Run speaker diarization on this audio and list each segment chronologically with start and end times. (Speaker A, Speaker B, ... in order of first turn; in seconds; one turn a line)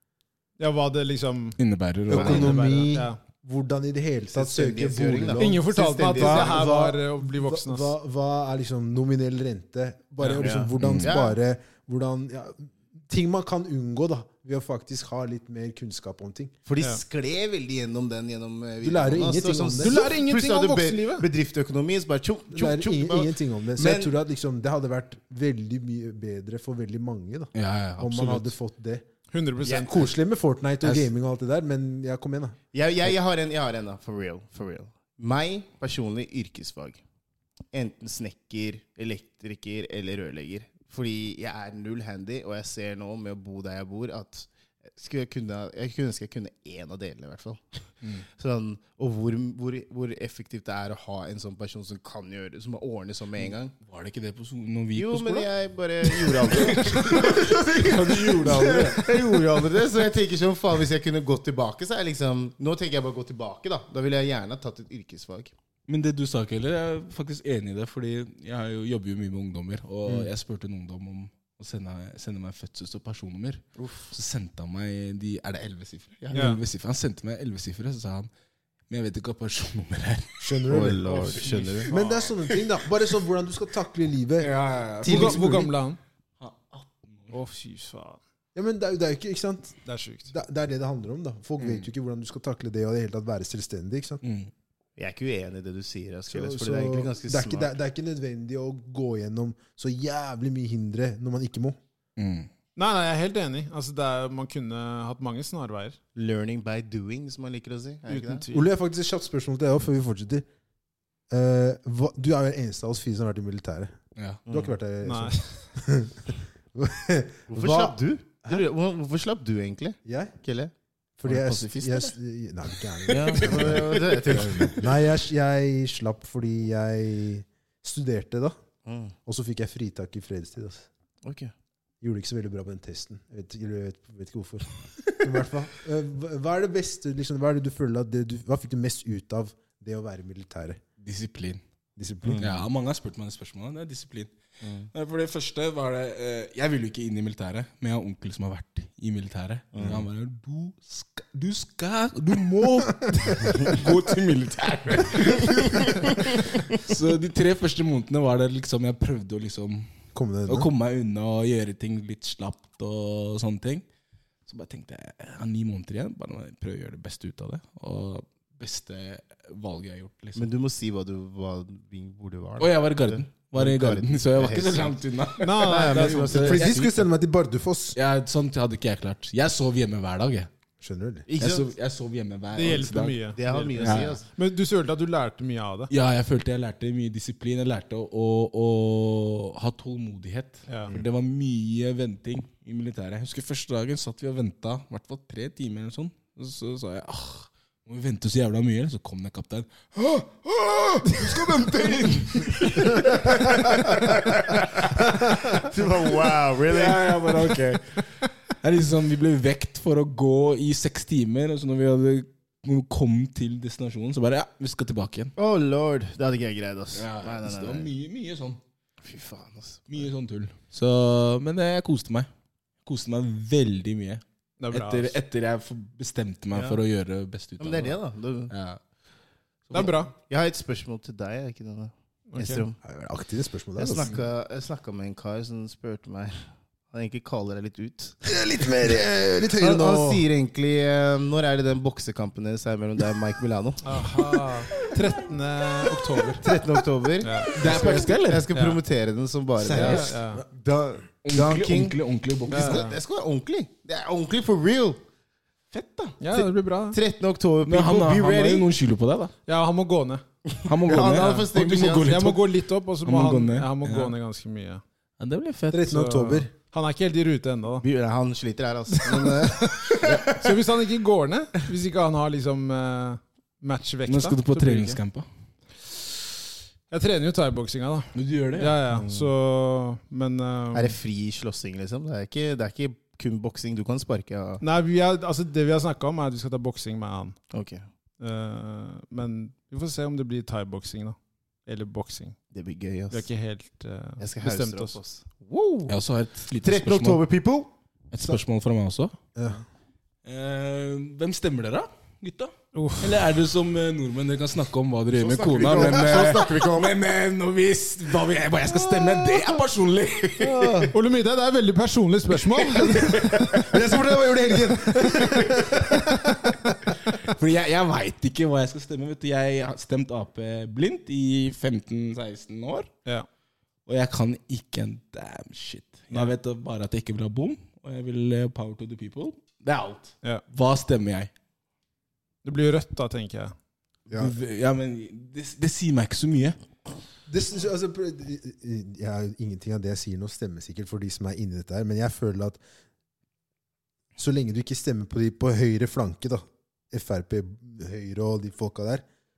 Speaker A: 0.6-3.2
Speaker B: 1.6-2.8
Speaker C: 2.1-16.5
Speaker D: 4.3-6.7
Speaker A: 5.4-7.9
Speaker A: 10.2-10.6
Speaker D: 10.4-11.3
Speaker B: 10.8-11.1
Speaker D: 16.6-24.1
Speaker C: 18.8-20.1
Speaker A: 19.8-21.2
Speaker C: 22.5-29.1
Speaker B: 27.5-28.5
Speaker A: 29.3-30.0
Speaker C: 29.6-32.6
Speaker D: 32.7-37.0
Speaker D: 37.7-53.7
Speaker B: 53.4-55.5
Speaker D: 54.9-65.5
Speaker B: 56.0-59.1
Speaker B: 65.9-78.3
Speaker D: 73.8-74.1
Speaker A: 76.3-76.6
Speaker B: 78.9-82.7
Speaker C: 80.4-81.0
Speaker D: 80.7-81.9
Speaker C: 81.9-85.7
Speaker A: 81.9-82.3
Speaker B: 84.4-85.7
Speaker A: 85.0-86.0
Speaker B: 86.4-87.4
Speaker A: 87.3-88.2
Speaker C: 88.5-94.2
Speaker A: 89.8-90.3
Speaker B: 91.6-91.9
Speaker B: 94.2-94.5
Speaker D: 95.0-97.8
Speaker C: 96.3-101.8
Speaker B: 102.2-102.5
Speaker A: 102.8-106.0
Speaker D: 106.1-108.4
Speaker A: 108.1-108.6
Speaker C: 108.5-110.4
Speaker C: 111.3-113.9
Speaker D: 114.5-114.7
Speaker C: 114.5-118.6
Speaker A: 115.0-115.6
Speaker D: 117.5-120.7
Speaker C: 120.0-120.3
Speaker C: 121.2-128.6
Speaker D: 121.3-122.1
Speaker B: 121.3-122.0
Speaker B: 123.1-124.7
Speaker D: 123.1-124.9
Speaker D: 128.8-129.1
Speaker C: 129.2-130.9
Speaker D: 131.2-131.5
Speaker C: 132.0-140.8
Speaker B: 141.0-141.6
Speaker C: 142.0-142.6
Speaker D: 142.2-142.5
Speaker B: 142.4-144.3
Speaker D: 144.6-144.9
Speaker B: 144.9-159.9
Speaker D: 149.7-150.0
Speaker D: 155.8-156.6
Speaker C: 160.1-160.7
Speaker B: 160.5-163.8
Speaker B: 164.4-170.4
Speaker D: 170.3-177.0
Speaker B: 172.6-176.6
Speaker A: 175.4-176.7
Speaker C: 176.3-178.0
Speaker B: 177.9-180.5
Speaker C: 180.8-181.2
Speaker D: 181.3-181.7
Speaker B: 181.4-184.1
Speaker A: 182.5-185.9
Speaker D: 183.3-184.3
Speaker B: 185.9-205.7
Speaker A: 190.7-190.9
Speaker D: 205.5-207.3
Speaker B: 206.6-215.3
Speaker D: 215.4-217.9
Speaker B: 216.9-218.6
Speaker D: 219.0-220.1
Speaker B: 219.9-222.3
Speaker B: 222.8-228.8
Speaker A: 224.6-225.1
Speaker D: 226.5-226.8
Speaker D: 227.6-228.5
Speaker A: 229.7-230.1
Speaker D: 229.8-232.8
Speaker A: 232.3-232.6
Speaker C: 232.8-234.2
Speaker D: 233.8-238.2
Speaker C: 238.2-240.3
Speaker D: 239.5-243.9
Speaker A: 243.8-246.4
Speaker C: 246.4-246.9
Speaker D: 246.4-255.0
Speaker A: 247.2-247.6
Speaker B: 247.5-248.5
Speaker A: 248.5-248.8
Speaker C: 249.6-250.5
Speaker A: 249.7-250.4
Speaker B: 251.2-252.8
Speaker A: 252.5-252.9
Speaker B: 255.7-256.2
Speaker A: 256.2-257.0
Speaker D: 256.3-258.7
Speaker B: 257.6-259.3
Speaker A: 259.5-260.2
Speaker B: 260.6-262.5
Speaker D: 260.6-262.2
Speaker A: 260.9-261.5
Speaker A: 262.0-264.8
Speaker B: 263.1-264.1
Speaker B: 265.2-265.9
Speaker C: 265.7-266.5
Speaker A: 265.9-267.9
Speaker D: 267.8-270.6
Speaker A: 268.9-275.0
Speaker B: 274.1-275.3
Speaker A: 276.9-280.9
Speaker B: 278.1-279.1
Speaker D: 280.7-284.6
Speaker A: 284.6-287.4
Speaker D: 287.5-287.9
Speaker A: 288.2-292.4
Speaker D: 292.5-293.2
Speaker A: 293.1-295.0
Speaker D: 294.2-295.9
Speaker B: 295.9-297.2
Speaker D: 296.6-297.7
Speaker B: 298.1-299.1
Speaker C: 299.3-299.6
Speaker B: 300.2-310.9
Speaker A: 302.7-303.2
Speaker D: 305.1-306.9
Speaker C: 305.6-306.5
Speaker C: 308.6-309.6
Speaker C: 310.4-310.9
Speaker A: 310.9-313.5
Speaker B: 312.5-313.8
Speaker C: 313.5-316.9
Speaker B: 315.0-316.1
Speaker B: 316.9-322.9
Speaker B: 323.9-331.3
Speaker A: 332.4-333.5
Speaker B: 334.1-336.6
Speaker C: 337.3-342.6
Speaker C: 344.2-349.0